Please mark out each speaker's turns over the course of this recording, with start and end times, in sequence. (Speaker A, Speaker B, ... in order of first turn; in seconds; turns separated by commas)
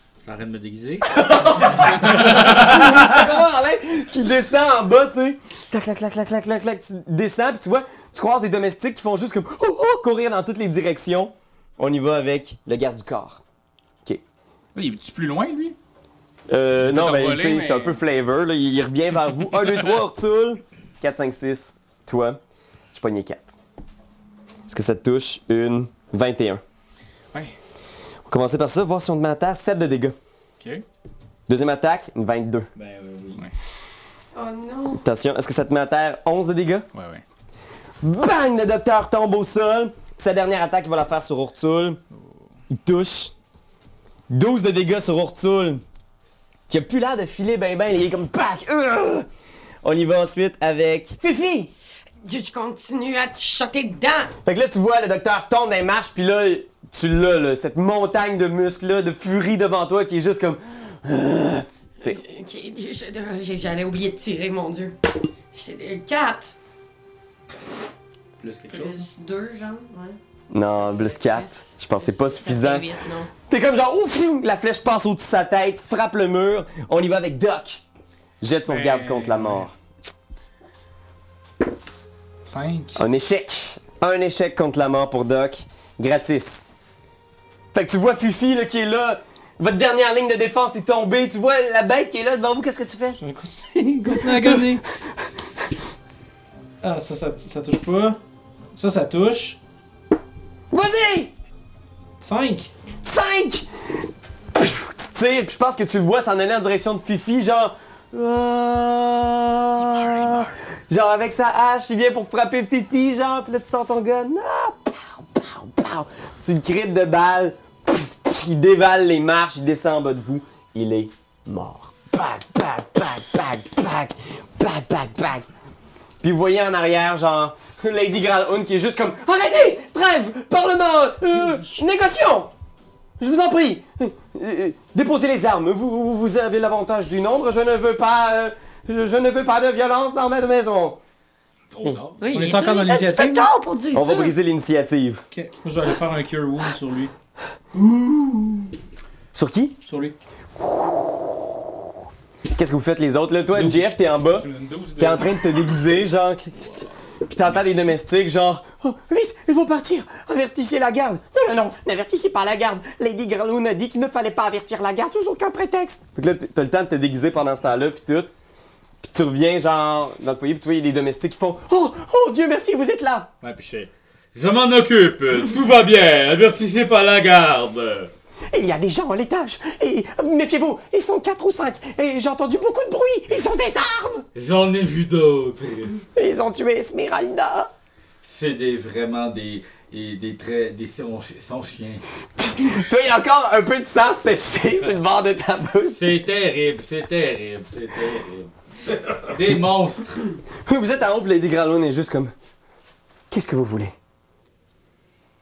Speaker A: 0.2-2.5, Speaker B: 1.1-13.4, Speaker C: 14.8-15.8, Speaker B: 16.5-22.4, Speaker C: 16.8-18.0, Speaker B: 22.9-23.5, Speaker B: 24.7-26.6, Speaker B: 28.3-30.1, Speaker C: 30.6-30.8, Speaker B: 31.5-32.7, Speaker A: 32.8-33.4, Speaker D: 34.3-35.0, Speaker B: 35.0-36.9, Speaker C: 36.9-37.2, Speaker B: 38.0-42.0, Speaker C: 42.1-42.4, Speaker B: 42.7-43.3, Speaker B: 44.3-45.8, Speaker B: 46.7-49.3, Speaker B: 49.8-51.7, Speaker D: 52.2-54.3, Speaker B: 54.4-62.2, Speaker D: 62.0-65.0, Speaker D: 65.5-66.5, Speaker A: 68.4-69.0, Speaker D: 68.7-73.3, Speaker B: 70.5-77.8, Speaker B: 78.4-79.7, Speaker C: 78.7-79.7, Speaker C: 82.5-83.0, Speaker B: 83.0-86.7, Speaker B: 87.7-93.2, Speaker E: 93.2-94.8, Speaker B: 94.1-94.6, Speaker E: 96.8-98.2, Speaker E: 98.8-99.6, Speaker B: 100.7-101.3, Speaker E: 102.2-102.7, Speaker B: 103.0-103.7, Speaker B: 104.5-125.5, Speaker C: 109.8-110.5, Speaker B: 126.2-132.5, Speaker B: 133.2-141.0, Speaker C: 141.7-142.3, Speaker D: 142.2-144.3, Speaker E: 142.3-143.5, Speaker B: 143.9-145.2, Speaker E: 145.3-147.1, Speaker B: 147.9-148.4, Speaker B: 149.3-149.8, Speaker E: 149.8-150.2, Speaker B: 150.6-151.4, Speaker B: 152.6-156.7, Speaker C: 153.6-155.8, Speaker B: 157.3-168.3, Speaker C: 157.4-157.9, Speaker B: 169.0-173.3, Speaker A: 173.4-178.1, Speaker B: 178.5-184.2, Speaker A: 184.3-186.0, Speaker B: 186.2-187.7, Speaker A: 188.2-192.1, Speaker B: 192.4-196.0, Speaker A: 196.0-200.3, Speaker B: 200.7-202.3, Speaker B: 203.3-203.9